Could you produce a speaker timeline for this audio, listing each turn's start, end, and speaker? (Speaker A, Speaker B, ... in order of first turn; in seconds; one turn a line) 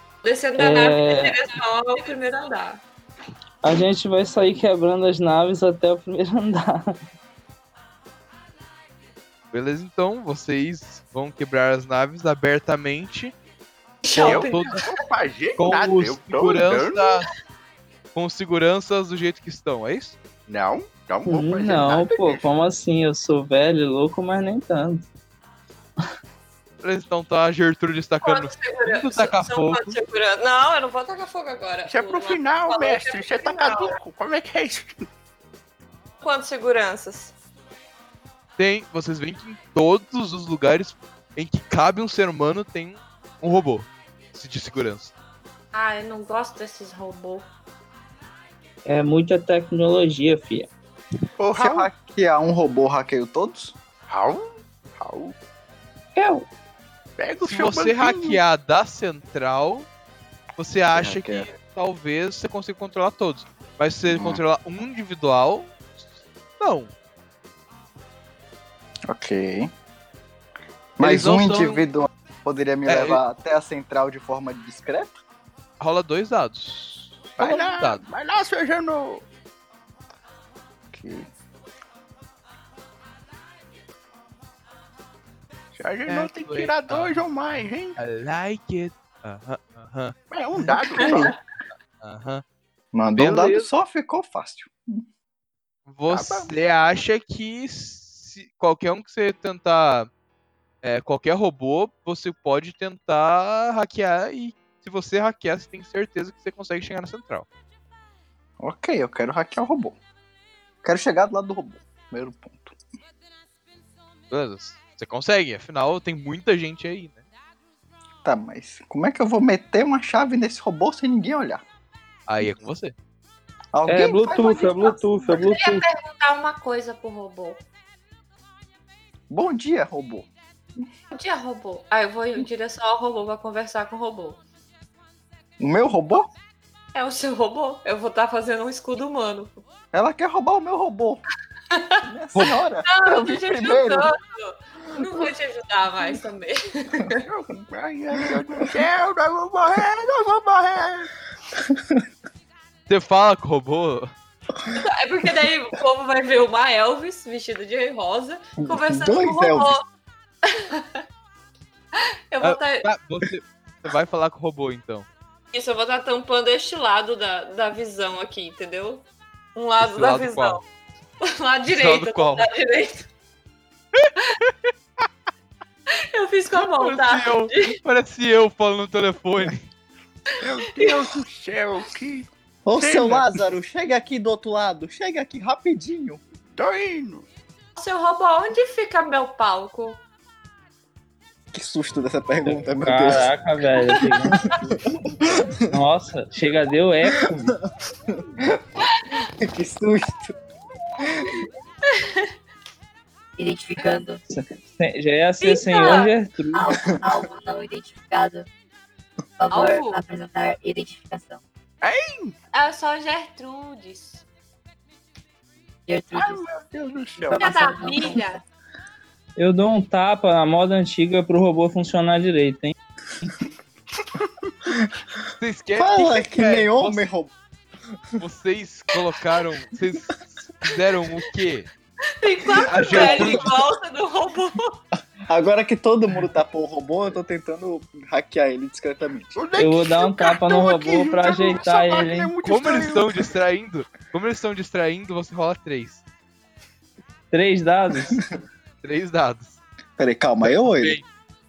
Speaker A: 0.2-2.8
Speaker B: 0.6-1.4
Speaker B: 3.6-6.8
Speaker C: 9.5-13.3
Speaker A: 14.0-14.9
Speaker C: 14.1-14.7
Speaker D: 14.1-17.1
Speaker C: 15.6-17.3
Speaker C: 18.1-20.2
Speaker D: 20.5-22.4
Speaker B: 21.3-25.1
Speaker C: 26.8-30.0
Speaker A: 28.2-34.0
Speaker D: 31.9-35.0
Speaker A: 36.2-37.3
Speaker C: 38.6-45.1
Speaker A: 45.7-47.5
Speaker B: 48.9-50.7
Speaker D: 51.4-51.9
Speaker E: 51.5-53.8
Speaker D: 54.1-54.4
Speaker D: 55.0-55.3
Speaker B: 56.2-56.5
Speaker D: 57.2-58.4
Speaker C: 57.4-59.9
Speaker C: 60.6-66.1
Speaker E: 60.9-61.5
Speaker E: 64.1-64.4
Speaker C: 66.6-66.9
Speaker E: 69.1-69.7
Speaker E: 71.0-75.2
Speaker C: 71.0-71.8
Speaker C: 72.9-73.2
Speaker C: 75.8-78.0
Speaker D: 77.4-79.2
Speaker E: 80.9-81.3
Speaker D: 85.8-88.0
Speaker C: 86.1-87.2
Speaker C: 88.0-90.2
Speaker D: 90.3-91.3
Speaker A: 91.1-91.3
Speaker C: 92.0-92.4
Speaker E: 92.9-95.0
Speaker C: 93.2-93.7
Speaker C: 95.9-100.1
Speaker D: 96.1-96.5
Speaker C: 100.8-107.5
Speaker E: 108.6-110.0
Speaker E: 110.8-112.8
Speaker C: 114.3-117.2
Speaker E: 118.2-121.6
Speaker C: 122.3-122.9
Speaker E: 123.7-125.5
Speaker B: 123.9-125.9
Speaker A: 124.3-127.6
Speaker E: 129.3-130.3
Speaker A: 131.1-134.4
Speaker E: 135.6-136.3
Speaker A: 136.9-139.6
Speaker E: 139.9-141.2
Speaker A: 141.7-147.2
Speaker E: 142.0-144.1
Speaker D: 147.2-151.1
Speaker E: 151.6-152.0
Speaker C: 152.9-154.1
Speaker A: 154.8-159.8
Speaker E: 158.6-159.8
Speaker A: 160.5-161.0
Speaker A: 162.3-162.9
Speaker C: 162.4-165.1
Speaker A: 165.5-170.6
Speaker C: 169.8-170.6
Speaker A: 171.2-173.1
Speaker C: 171.7-172.5
Speaker C: 174.0-174.5
Speaker A: 176.1-177.8
Speaker C: 176.5-179.7
Speaker A: 180.3-181.0
Speaker D: 180.4-183.3
Speaker E: 182.7-186.2
Speaker D: 186.6-187.3
Speaker A: 187.8-190.0
Speaker E: 191.5-193.3
Speaker B: 192.5-194.4
Speaker E: 194.5-195.3
Speaker B: 195.7-197.5
Speaker E: 197.2-197.6
Speaker E: 199.4-200.4
Speaker E: 201.0-201.3
Speaker A: 201.9-202.3
Speaker F: 203.4-204.2
Speaker B: 204.3-206.7
Speaker A: 205.4-206.1
Speaker F: 206.5-208.5
Speaker F: 209.4-211.4
Speaker A: 209.5-210.0
Speaker D: 211.8-212.3
Speaker A: 212.5-214.2
Speaker F: 215.9-216.4
Speaker D: 216.2-217.8
Speaker F: 217.2-218.4
Speaker A: 217.3-218.4
Speaker B: 219.4-222.7
Speaker C: 225.4-227.0
Speaker E: 225.8-227.3
Speaker C: 228.2-231.7
Speaker A: 232.2-234.8
Speaker C: 232.6-233.5
Speaker E: 232.9-233.3
Speaker E: 235.3-239.3
Speaker D: 239.3-243.1
Speaker B: 239.6-242.3
Speaker C: 242.4-246.0
Speaker B: 247.3-248.2
Speaker C: 248.8-249.6
Speaker E: 250.0-251.0
Speaker C: 250.4-251.0